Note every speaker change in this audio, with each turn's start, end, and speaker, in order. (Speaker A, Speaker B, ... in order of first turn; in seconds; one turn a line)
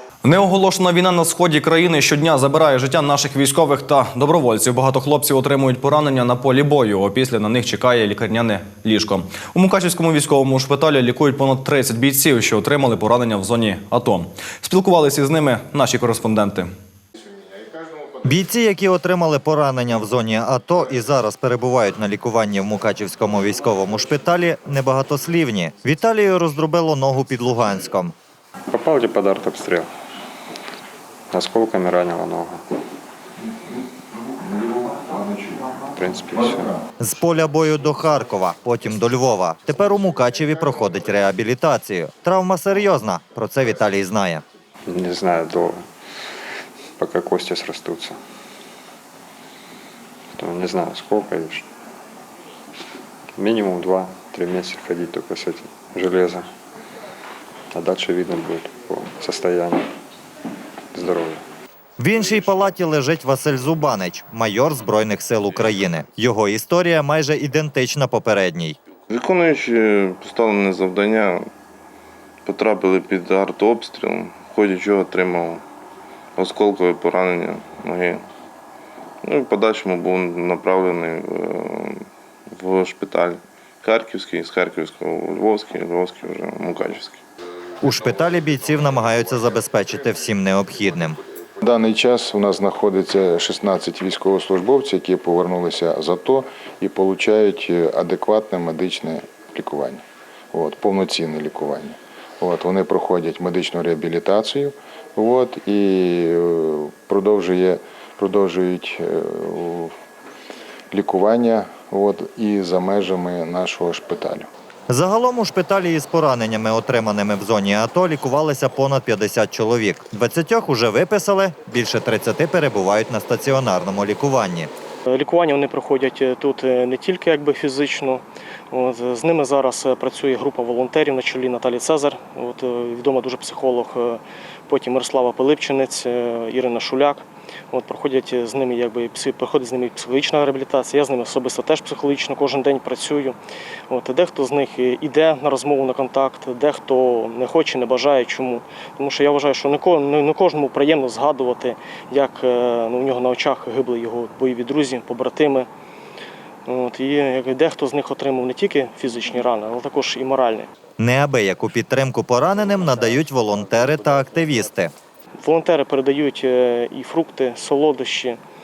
Speaker A: 0.2-16.7
Speaker B: 18.2-28.1
Speaker C: 28.7-29.9
Speaker C: 31.3-32.6
Speaker C: 35.9-36.8
Speaker B: 37.0-44.4
Speaker C: 44.9-45.8
Speaker C: 47.0-48.2
Speaker C: 50.4-51.6
Speaker C: 53.3-56.5
Speaker C: 57.7-59.9
Speaker C: 60.9-61.4
Speaker B: 62.0-68.8
Speaker D: 69.1-71.5
Speaker D: 72.5-75.6
Speaker D: 76.4-78.2
Speaker D: 79.2-87.2
Speaker B: 87.8-91.2
Speaker E: 91.6-100.0
Speaker E: 100.5-109.9
Speaker E: 110.9-114.5
Speaker B: 114.9-124.7
Speaker F: 125.1-143.4
Speaker F: 143.9-155.7
Speaker F: 156.7-160.7
Speaker B: 161.0-164.9
Speaker F: 165.4-168.4